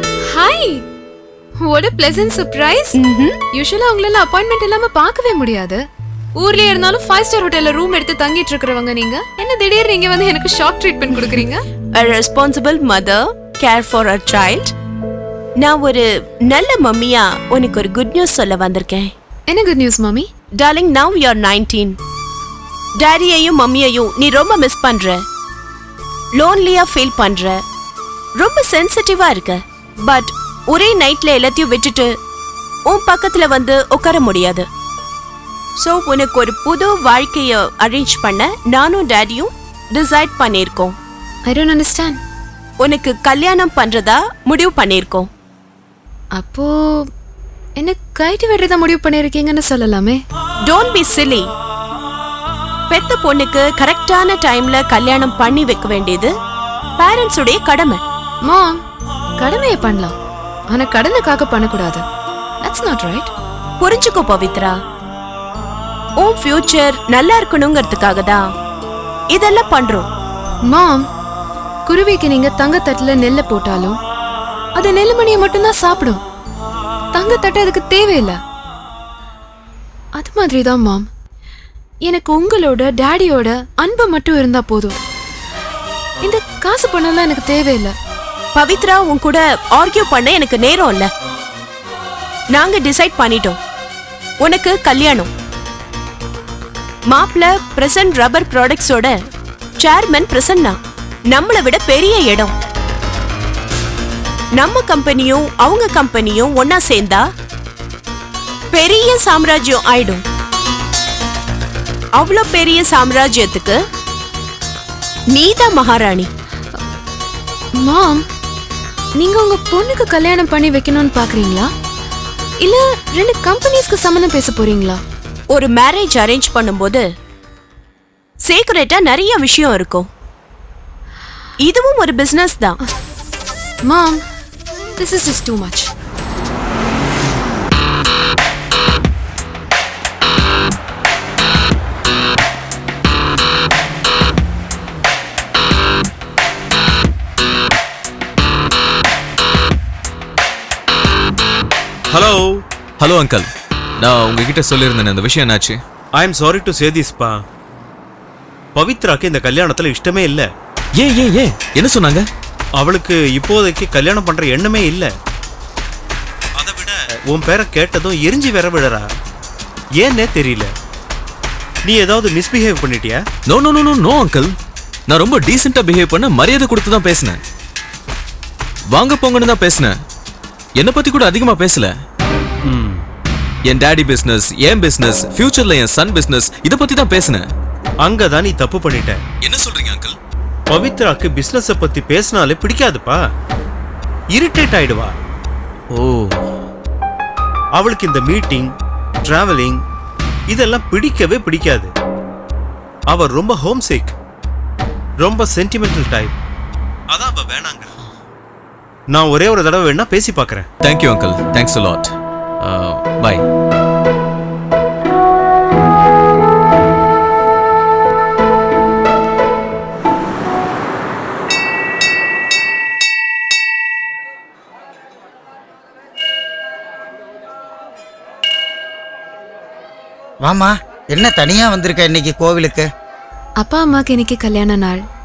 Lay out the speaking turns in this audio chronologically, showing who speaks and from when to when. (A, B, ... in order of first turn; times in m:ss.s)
0:00.3-0:00.8 A
0:01.6-0:03.0 A
0:03.0-0:03.4 B
0:03.5-0:05.8 A
0:06.4-0:11.6 A
0:12.0-0:14.7 B
0:15.6-0:19.1 B
0:19.5-0:20.3 A
0:20.6-0:22.0 B
0:23.0-0:25.2 B
0:26.4-0:27.6 B
0:28.4-0:32.1 B
0:32.9-0:34.7 B
0:35.8-0:41.0 B
0:41.5-0:42.2 A
0:42.8-0:45.3 B
0:46.4-0:46.8 A
0:47.8-0:50.2 A
0:50.7-0:51.5 B
0:52.9-0:56.3 B
0:57.0-0:58.0 B
0:58.4-0:58.8 A
0:59.4-1:00.1 A
1:00.7-1:02.0 A
1:02.6-1:03.3 A
1:03.8-1:04.8 B
1:06.2-1:08.4 B
1:09.3-1:10.1 B
1:10.7-1:11.0 A
1:11.9-1:14.0 A
1:14.8-1:16.2 A
1:17.1-1:18.4 A
1:20.2-1:21.0 A
1:22.0-1:25.0 A
1:26.2-1:27.9 A
1:28.6-1:31.1 B
1:32.5-1:33.6 B
1:34.4-1:35.3 B
1:37.1-1:39.2 B
1:39.8-1:40.8 B
1:41.3-1:42.5 B
1:44.6-1:47.2 B
1:48.7-1:50.2 B
1:52.2-1:53.8 B
1:55.3-1:56.3 B
1:57.8-1:58.2 A
1:59.2-2:01.7 A
2:02.6-2:05.0 A
2:05.5-2:07.0 B
2:08.4-2:10.1 B
2:11.6-2:12.8 B
2:13.9-2:14.2 A
2:15.0-2:15.9 A
2:32.1-2:32.6 C
2:33.0-2:33.5 D
2:34.0-2:35.8 D
2:36.2-2:37.4 C
2:38.8-2:40.5 C
2:41.0-2:42.2 D
2:42.8-2:45.1 C
2:46.6-2:49.1 C
2:50.0-2:50.7 C
2:51.8-2:53.2 C
2:53.5-2:54.5 D
2:55.1-2:57.4 D
2:58.9-2:59.9 D
3:00.8-3:01.9 D
3:02.7-3:03.0 C
3:03.6-3:07.5 D
3:08.0-3:09.2 C
3:09.4-3:10.2 D
3:10.7-3:13.2 C
3:14.3-3:15.2 C
3:15.9-3:16.4 D
3:17.8-3:19.8 C
3:20.5-3:21.9 C
3:23.1-3:24.2 C
3:25.2-3:26.4 C
3:27.1-3:28.0 C
3:29.1-3:30.7 C
3:30.8-3:33.4 D
3:50.4-3:52.9 E
3:53.6-3:55.0 A